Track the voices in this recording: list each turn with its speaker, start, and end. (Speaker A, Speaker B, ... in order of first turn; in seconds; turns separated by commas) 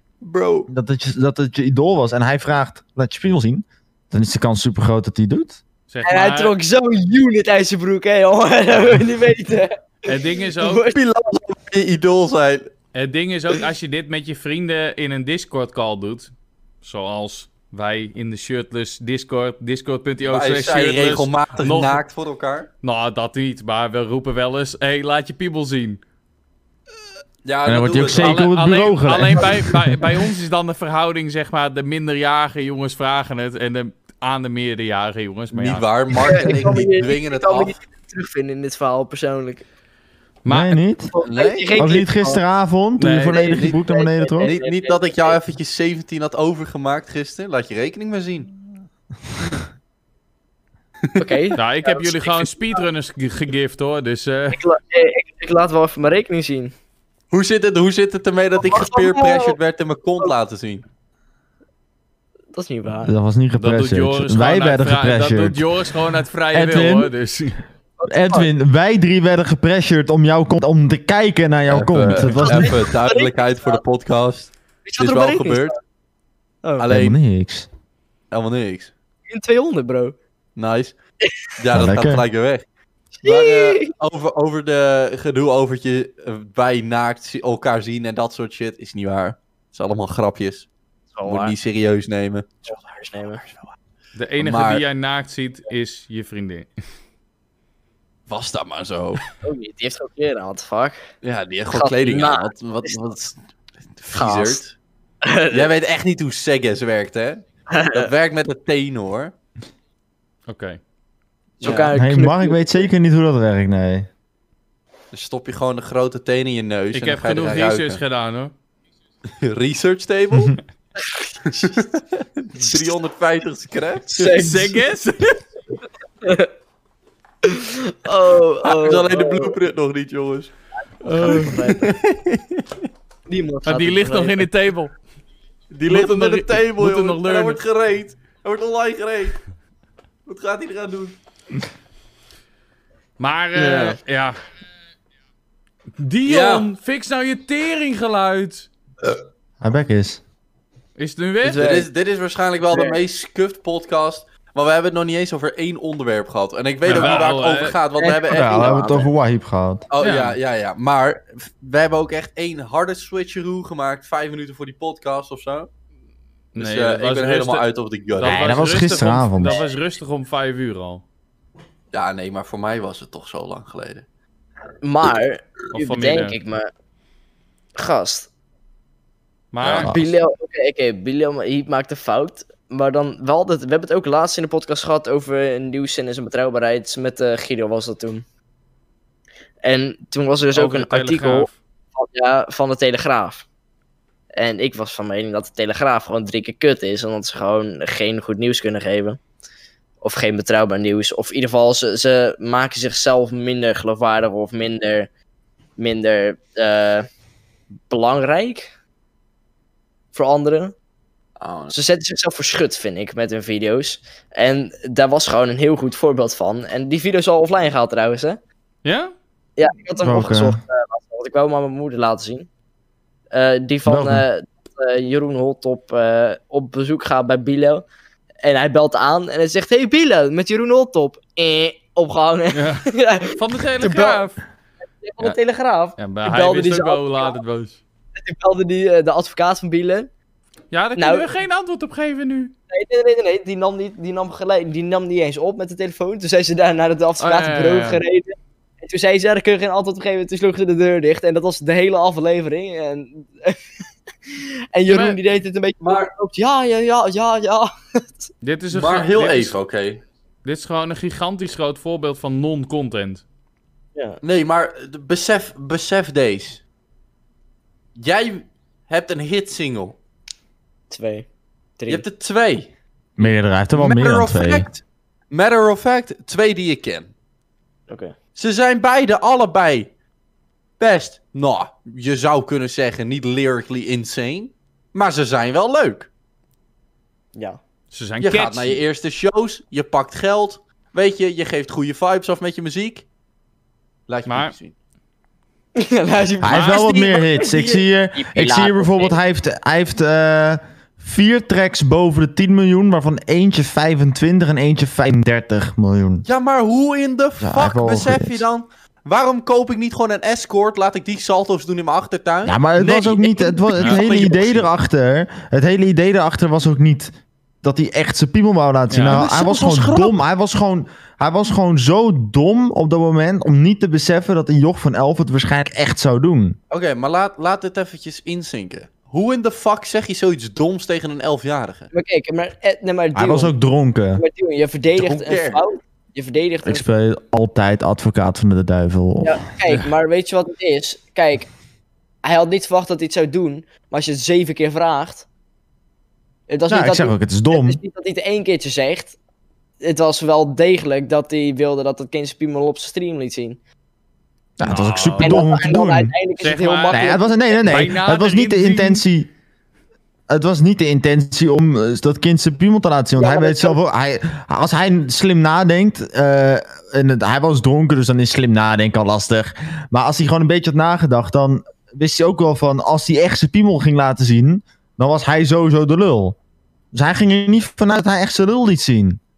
Speaker A: 0.2-0.7, Speaker B: 0.7-5.6, Speaker C: 5.9-6.5, Speaker D: 6.0-9.8, Speaker C: 10.1-10.9, Speaker D: 10.5-11.0, Speaker A: 10.9-12.7, Speaker C: 12.9-22.0, Speaker A: 20.2-22.7, Speaker C: 22.8-26.0, Speaker A: 27.4-28.4, Speaker B: 27.6-30.0, Speaker C: 28.1-35.9, Speaker A: 35.5-37.8, Speaker D: 36.2-39.6, Speaker C: 40.4-40.8, Speaker B: 40.5-41.1, Speaker D: 41.1-42.4, Speaker A: 41.2-42.0, Speaker B: 41.7-44.5, Speaker C: 43.0-43.6, Speaker D: 43.3-45.4, Speaker A: 44.4-48.5, Speaker D: 51.2-52.9, Speaker C: 51.5-54.6, Speaker D: 54.5-56.7, Speaker A: 57.3-60.8, Speaker D: 58.6-59.6, Speaker D: 62.5-63.1, Speaker B: 63.0-65.7, Speaker C: 63.6-67.6, Speaker B: 66.5-67.1, Speaker D: 68.0-68.5, Speaker B: 68.1-72.7, Speaker A: 71.7-75.8, Speaker D: 72.3-73.8, Speaker D: 74.8-75.8, Speaker A: 76.8-77.2, Speaker B: 76.9-77.7, Speaker A: 78.3-78.9, Speaker D: 79.3-80.2, Speaker A: 80.5-80.9, Speaker A: 81.6-82.6, Speaker B: 81.7-82.2, Speaker D: 83.2-83.9, Speaker A: 83.2-90.7, Speaker D: 91.2-91.5, Speaker A: 91.2-92.5, Speaker D: 92.7-93.4, Speaker C: 94.2-96.7, Speaker A: 94.4-94.8, Speaker A: 98.3-99.2, Speaker D: 99.4-101.0, Speaker A: 101.2-103.3, Speaker D: 101.7-103.0, Speaker A: 104.0-104.7, Speaker D: 104.1-104.6, Speaker D: 105.2-105.7, Speaker A: 105.5-109.3, Speaker D: 107.7-108.1, Speaker C: 110.5-110.8, Speaker A: 111.6-111.9, Speaker D: 111.6-112.9, Speaker B: 111.9-114.1, Speaker A: 115.1-118.0, Speaker C: 116.9-118.5, Speaker A: 119.4-120.6, Speaker A: 121.5-124.4, Speaker D: 124.1-124.8, Speaker C: 124.3-125.4, Speaker D: 126.2-126.5, Speaker D: 127.5-129.5, Speaker A: 128.6-130.5, Speaker D: 131.0-131.9, Speaker C: 131.0-131.7, Speaker A: 131.4-132.6, Speaker D: 133.3-134.4, Speaker C: 133.7-134.9, Speaker A: 135.7-139.4, Speaker C: 135.9-137.6, Speaker A: 140.2-141.2, Speaker C: 143.2-144.4, Speaker D: 143.5-144.0, Speaker C: 146.0-148.7, Speaker A: 146.2-146.7, Speaker B: 149.6-150.2, Speaker C: 151.0-151.6, Speaker D: 151.4-151.9, Speaker A: 151.5-159.1, Speaker D: 152.7-153.0, Speaker C: 156.8-157.8, Speaker D: 158.0-159.1, Speaker B: 158.3-159.9, Speaker A: 159.9-165.7, Speaker C: 160.0-160.3, Speaker C: 166.5-171.0, Speaker A: 166.6-168.7, Speaker B: 168.2-169.6, Speaker A: 171.9-174.0, Speaker D: 174.8-176.7, Speaker C: 175.7-176.4, Speaker D: 177.8-178.3, Speaker C: 179.5-179.9, Speaker B: 179.6-180.1, Speaker D: 179.8-188.2, Speaker D: 189.6-193.4, Speaker C: 190.5-191.5, Speaker D: 194.3-199.2, Speaker D: 200.0-205.1, Speaker D: 205.8-207.1, Speaker D: 207.9-208.7, Speaker D: 210.1-210.7, Speaker A: 211.4-211.7, Speaker D: 211.7-218.4, Speaker C: 218.8-219.1, Speaker D: 219.6-222.5, Speaker B: 220.0-220.6, Speaker D: 223.3-227.8, Speaker B: 223.8-224.2, Speaker D: 228.4-234.2, Speaker C: 232.5-234.4, Speaker D: 235.0-237.4, Speaker C: 236.0-237.8, Speaker D: 238.2-240.1, Speaker C: 240.7-242.5, Speaker D: 241.0-241.3, Speaker D: 242.7-253.6, Speaker C: 247.2-248.0, Speaker D: 254.7-258.3, Speaker C: 254.9-255.2, Speaker A: 255.8-256.1, Speaker C: 258.4-259.6, Speaker A: 258.7-260.0, Speaker C: 260.4-263.2, Speaker A: 264.2-266.6, Speaker A: 267.9-269.9, Speaker D: 270.9-271.3, Speaker D: 271.8-272.0, Speaker A: 271.9-272.7, Speaker B: 273.2-274.7, Speaker A: 273.7-277.1, Speaker D: 277.9-278.1, Speaker A: 278.4-279.9, Speaker A: 280.8-286.1, Speaker C: 287.9-288.8, Speaker A: 288.2-293.0, Speaker A: 294.1-294.7, Speaker C: 294.3-294.5, Speaker D: 295.8-299.2, Speaker B: 296.4-306.2, Speaker C: 296.5-297.0, Speaker A: 306.2-314.7, Speaker B: 307.4-308.4, Speaker B: 312.4-326.6, Speaker C: 318.9-319.2, Speaker A: 319.0-320.1, Speaker A: 326.7-331.9, Speaker D: 331.9-333.5, Speaker B: 333.1-334.2, Speaker D: 334.1-336.9, Speaker A: 334.9-335.6, Speaker B: 336.6-339.4, Speaker D: 339.2-341.5, Speaker D: 342.2-345.2, Speaker D: 346.5-349.1, Speaker B: 346.7-347.8, Speaker D: 349.8-353.6, Speaker B: 354.6-356.1, Speaker C: 354.6-355.5, Speaker D: 355.2-357.9, Speaker C: 356.4-357.1, Speaker B: 356.9-359.3, Speaker C: 357.6-359.0, Speaker B: 360.3-376.4, Speaker D: 363.1-363.8, Speaker B: 376.9-379.2